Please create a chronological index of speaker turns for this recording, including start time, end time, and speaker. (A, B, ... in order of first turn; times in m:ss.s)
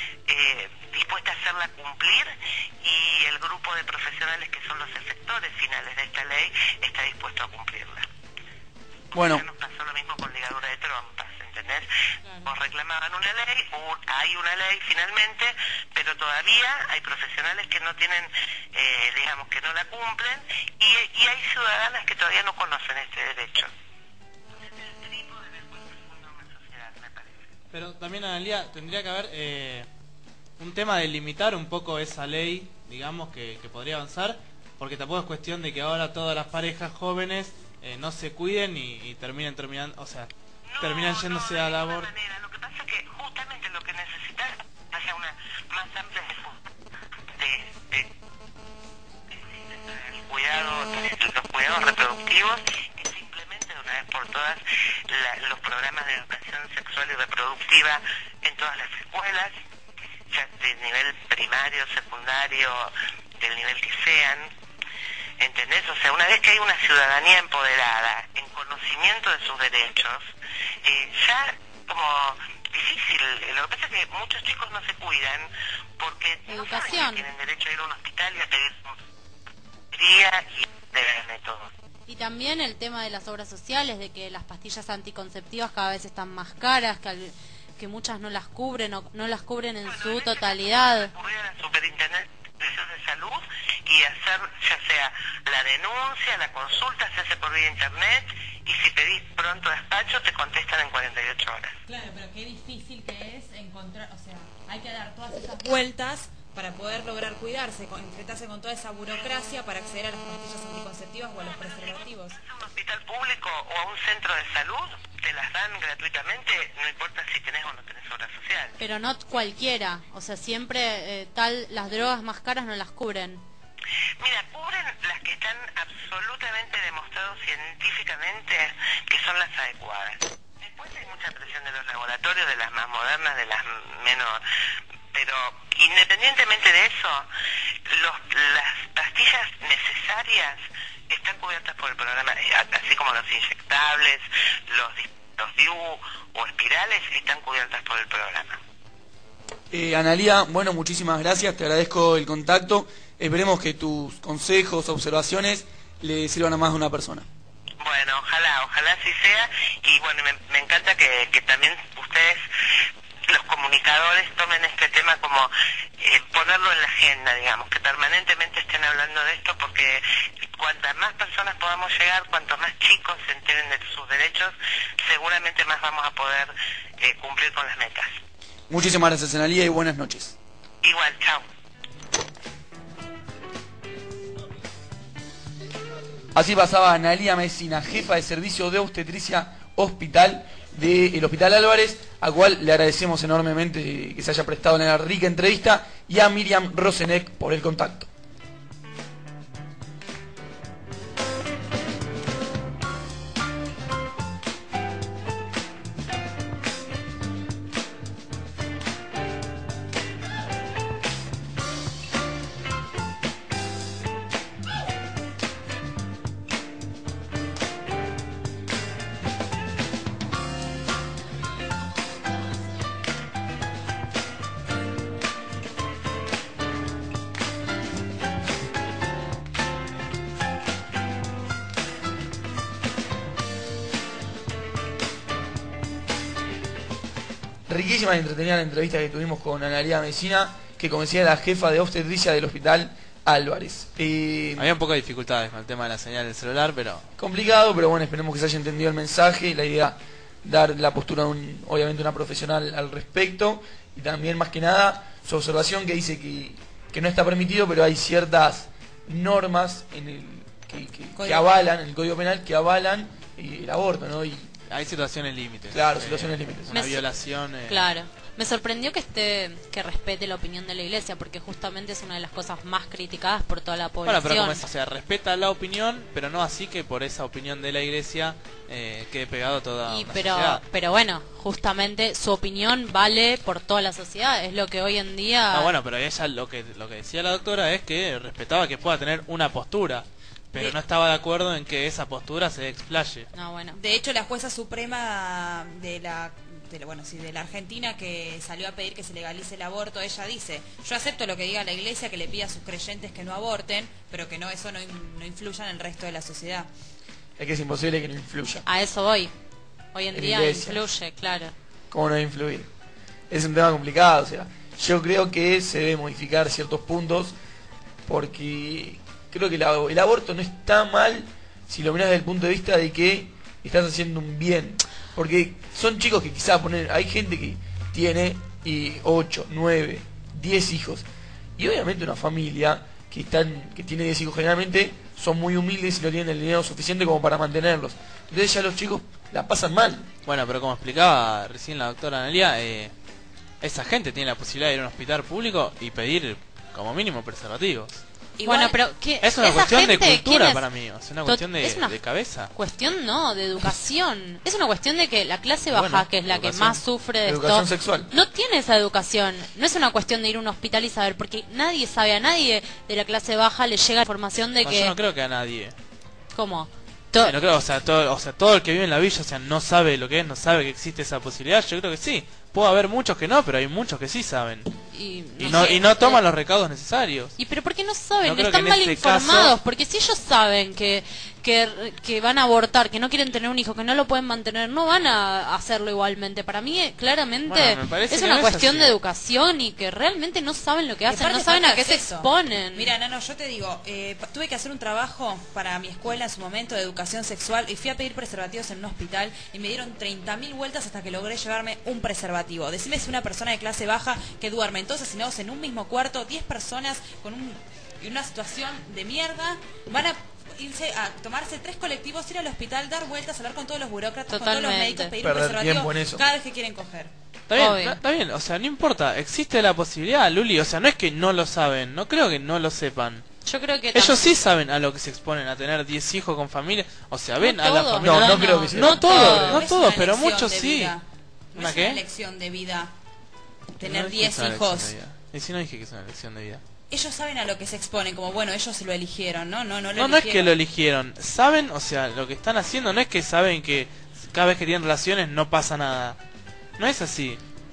0:00.3-0:08.1 A
0:09.1-0:11.9 A
0:09.1-0:09.4 B
0:12.3-0:12.5 C
0:12.4-0:23.7 A
0:24.6-0:27.5 A
0:27.7-0:29.9 D
0:30.6-0:40.3 D
0:40.7-0:46.7 A
0:40.8-0:42.1 D
0:47.3-0:48.1 A
0:49.3-0:59.5 A
1:00.3-1:04.5 A
1:05.4-1:10.3 A
1:10.8-1:19.0 A
1:16.5-1:17.2 E
1:19.9-1:21.7 A
1:22.1-1:31.1 E
1:29.8-1:41.8 A
1:41.9-1:52.4 C
1:51.5-1:58.8 A
1:58.8-2:03.4 E
2:04.2-2:14.4 A
2:15.1-2:17.3 A
2:17.9-2:28.6 A
2:29.7-2:37.3 B
2:37.8-2:42.4 A
2:43.3-2:50.0 A
2:50.6-2:58.2 A
2:58.7-3:00.4 B
3:00.8-3:01.4 A
3:06.3-3:18.1 B
3:57.7-4:04.7 B
4:04.6-4:07.1 D
4:07.2-4:24.5 B
4:21.2-4:21.5 C
4:24.7-4:27.9 D
4:25.7-4:26.8 B
4:26.7-4:27.0 E
4:27.7-4:34.6 E
4:34.0-4:40.6 D
4:39.9-4:45.7 E
4:45.5-4:53.3 D
4:53.3-4:53.8 E
4:53.8-5:06.7 C
5:07.4-5:08.6 B
5:08.7-5:09.3 E
5:09.9-5:11.5 E
5:10.1-5:10.8 B
5:11.9-5:12.7 B
5:13.3-5:17.3 B
5:18.1-5:31.1 B
5:31.6-5:40.1 B
5:40.3-5:42.9 D
5:43.6-5:48.0 D
5:48.4-5:48.8 C
5:48.4-5:50.6 E
5:49.2-5:52.5 D
5:51.3-5:52.0 E
5:52.5-6:05.0 E
5:55.7-5:56.8 D
5:57.2-5:58.1 B
6:04.6-6:05.8 D
6:06.3-6:07.4 E
6:07.2-6:14.7 D
6:14.9-6:16.2 E
6:15.4-6:17.4 D
6:17.4-6:32.9 E
6:18.2-6:19.6 D
6:27.5-6:29.0 D
6:31.1-6:57.1 C
6:54.3-6:55.1 E
6:55.2-6:56.2 B
6:57.5-7:03.2 D
6:57.6-6:58.0 E
7:03.5-7:04.3 E
7:03.9-7:11.0 D
7:07.4-7:09.6 E
7:08.0-7:09.6 B
7:09.3-7:12.9 C
7:11.6-7:12.0 D
7:13.8-7:14.9 C
7:13.8-7:16.6 D
7:16.9-7:20.5 C
7:20.0-7:26.2 D
7:26.8-7:27.4 D